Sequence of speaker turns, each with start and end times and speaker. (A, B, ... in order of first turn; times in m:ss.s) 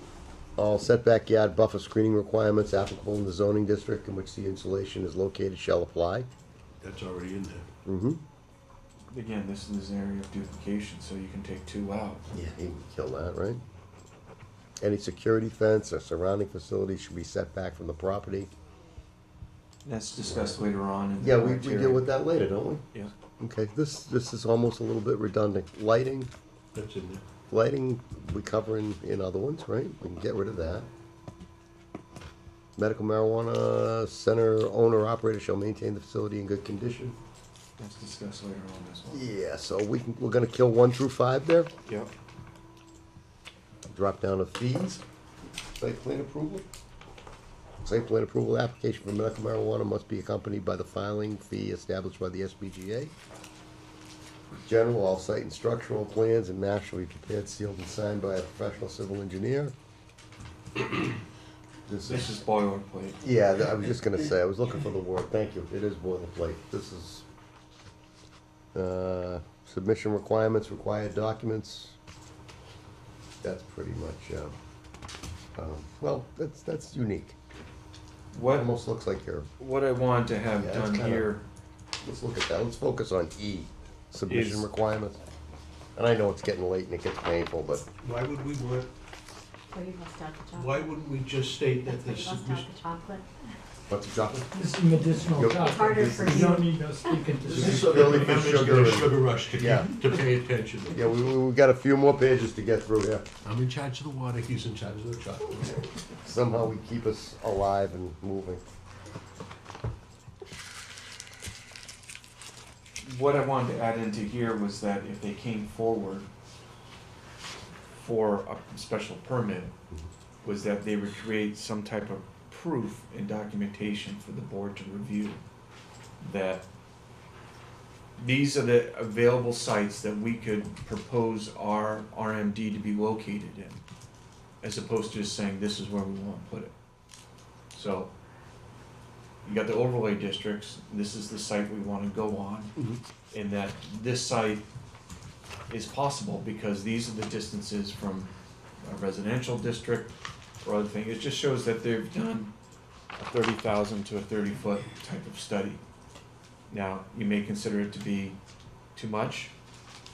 0:00.6-0:06.3 A
0:06.8-0:07.7 B
0:07.8-0:08.2 A
0:09.1-0:12.2 C
0:12.3-0:13.6 A
0:14.8-0:18.5 A
0:19.8-0:22.1 C
0:20.2-0:20.6 A
0:21.2-0:22.8 A
0:23.4-0:26.3 A
0:26.7-0:27.2 B
0:27.5-0:30.9 A
0:32.8-0:37.2 A
0:37.8-0:39.2 C
0:39.1-0:41.7 A
0:41.8-0:42.1 C
0:43.9-0:45.0 A
0:45.7-0:46.6 A
0:47.8-0:53.1 A
0:54.6-0:59.7 A
1:01.9-1:02.4 A
1:02.0-1:03.2 C
1:03.2-1:07.2 A
1:08.7-1:12.0 A
1:13.4-1:14.5 A
1:15.6-1:17.4 A
1:18.3-1:18.7 C
1:18.4-1:19.5 A
1:19.6-1:21.4 C
1:20.5-1:21.3 A
1:22.0-1:25.2 A
1:24.3-1:24.7 C
1:26.0-1:27.9 A
1:28.0-1:28.9 B
1:29.7-1:30.8 D
1:30.5-1:32.7 B
1:31.8-1:33.2 D
1:33.9-1:34.5 A
1:34.5-1:38.4 E
1:35.3-1:36.6 A
1:35.6-1:36.6 D
1:37.4-1:41.1 B
1:37.6-1:39.9 A
1:40.9-1:43.3 A
1:43.4-1:45.9 B
1:46.2-1:48.6 A
1:53.0-1:56.3 C
1:57.9-1:59.7 C
2:00.4-2:05.4 C
2:06.2-2:06.6 C
2:08.2-2:13.8 C
2:14.6-2:16.7 C
2:17.7-2:18.1 C
2:19.4-2:22.7 C
2:23.3-2:24.6 C
2:25.7-2:32.5 C
2:33.2-2:35.8 C
2:36.7-2:38.4 C
2:38.9-2:39.5 C